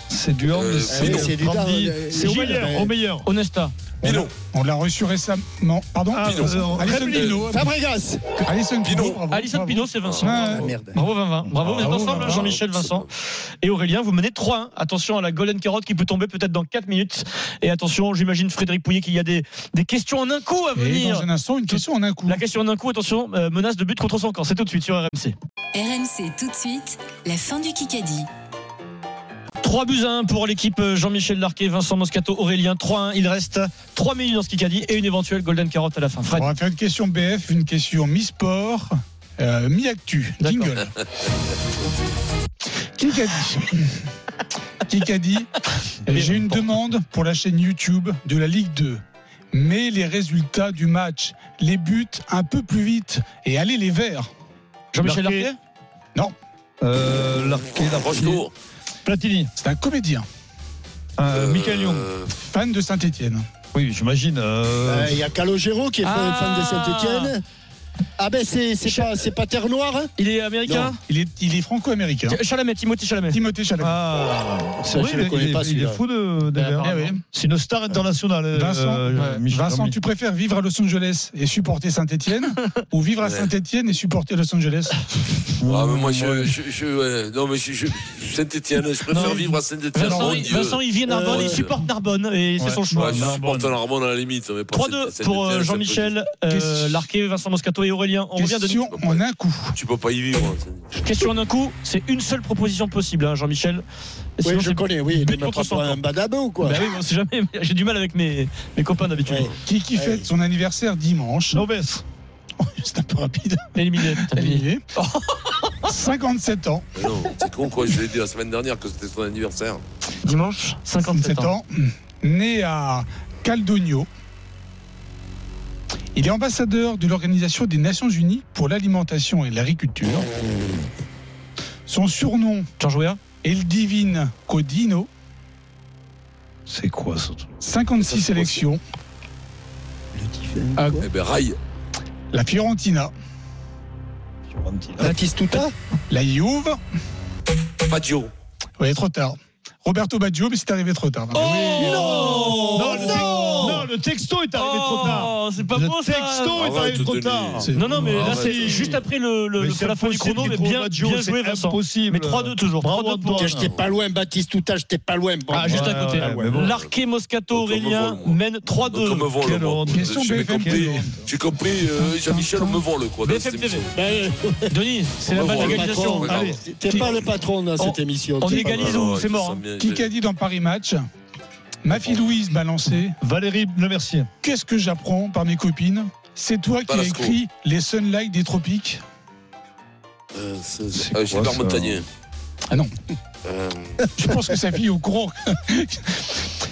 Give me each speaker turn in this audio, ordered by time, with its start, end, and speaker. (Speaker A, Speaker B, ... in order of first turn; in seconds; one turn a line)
Speaker A: 0.1-3.2
Speaker B: 0.5-1.4
Speaker C: 0.9-2.9
Speaker D: 3.2-3.7
Speaker E: 4.0-7.6
Speaker B: 4.0-4.3
Speaker A: 6.1-7.3
Speaker B: 6.2-7.5
Speaker C: 7.5-8.4
Speaker E: 8.3-10.7
Speaker B: 8.8-9.2
Speaker D: 9.3-13.1
Speaker B: 10.0-10.3
Speaker C: 10.3-11.0
Speaker B: 11.6-13.1
Speaker E: 11.6-12.5
Speaker D: 13.6-25.4
Speaker E: 20.8-22.4
Speaker F: 25.7-28.3
Speaker D: 29.6-36.5
Speaker E: 36.3-40.9
Speaker D: 40.4-40.8
Speaker E: 43.0-44.1
Speaker E: 44.9-45.5
Speaker E: 46.0-54.3
Speaker D: 46.0-46.8
Speaker D: 54.9-55.6
Speaker A: 55.0-55.5
Speaker A: 56.8-58.5
Speaker B: 57.8-58.5
Speaker A: 59.0-59.5
Speaker E: 59.6-60.2
Speaker A: 61.2-62.1
Speaker B: 61.3-62.3
Speaker E: 62.3-63.4
Speaker A: 63.7-65.2
Speaker C: 64.8-67.4
Speaker D: 66.0-67.3
Speaker C: 68.2-70.1
Speaker D: 68.8-69.1
Speaker D: 70.2-71.0
Speaker C: 70.7-70.9
Speaker E: 71.1-72.4
Speaker D: 72.3-73.4
Speaker E: 73.3-74.0
Speaker A: 73.8-80.0
Speaker C: 74.8-76.0
Speaker D: 74.9-75.2
Speaker D: 76.5-77.2
Speaker E: 76.8-77.2
Speaker E: 78.5-85.0
Speaker D: 79.2-79.4
Speaker B: 83.2-83.5
Speaker A: 85.6-86.5
Speaker B: 85.6-91.7
Speaker D: 89.1-93.4
Speaker E: 90.0-90.4
Speaker C: 91.1-91.6
Speaker A: 92.6-93.7
Speaker B: 92.9-96.2
Speaker D: 94.7-98.8
Speaker E: 96.5-97.0
Speaker E: 98.3-99.8
Speaker B: 98.8-101.0
Speaker D: 101.0-103.8
Speaker D: 104.4-106.0
Speaker C: 104.4-106.8
Speaker D: 106.6-109.5
Speaker C: 109.3-110.3
Speaker E: 109.6-111.7
Speaker A: 111.5-112.0
Speaker E: 112.6-114.8
Speaker D: 113.7-115.9
Speaker E: 115.8-116.9
Speaker B: 117.0-119.8
Speaker D: 120.2-121.5
Speaker E: 121.0-124.1
Speaker E: 126.1-130.3
Speaker E: 131.9-132.7
Speaker D: 132.8-133.2
Speaker E: 133.4-135.1
Speaker A: 136.7-137.5
Speaker E: 137.6-138.8
Speaker B: 137.9-138.6
Speaker C: 140.1-141.1
Speaker D: 140.8-141.0
Speaker B: 141.0-141.6
Speaker E: 142.3-143.1
Speaker A: 144.5-145.1
Speaker C: 145.0-145.7
Speaker D: 145.0-145.6
Speaker E: 146.1-146.8
Speaker B: 147.9-148.3
Speaker E: 148.8-151.9
Speaker D: 151.3-153.8
Speaker A: 151.4-159.0
Speaker C: 151.8-153.8
Speaker D: 154.5-156.6
Speaker B: 156.5-159.0
Speaker E: 157.6-158.0
Speaker D: 157.7-163.5
Speaker A: 159.6-163.7
Speaker C: 163.3-166.7
Speaker D: 165.5-169.3
Speaker A: 165.6-166.6
Speaker B: 166.5-166.9
Speaker B: 167.5-174.0
Speaker A: 169.4-171.1
Speaker E: 169.9-171.2
Speaker E: 171.9-172.8
Speaker D: 173.2-173.9
Speaker C: 173.9-174.7
Speaker D: 174.7-176.3
Speaker B: 175.2-177.3
Speaker C: 175.3-178.9
Speaker A: 176.3-176.6
Speaker D: 177.8-179.6
Speaker E: 178.4-178.8
Speaker B: 178.7-180.1
Speaker E: 179.8-181.0
Speaker E: 181.8-183.2
Speaker B: 181.9-182.3
Speaker A: 183.2-184.3
Speaker E: 184.4-189.0
Speaker B: 186.9-187.4
Speaker B: 190.3-192.1
Speaker A: 190.9-191.9
Speaker B: 193.4-194.0
Speaker E: 194.2-196.6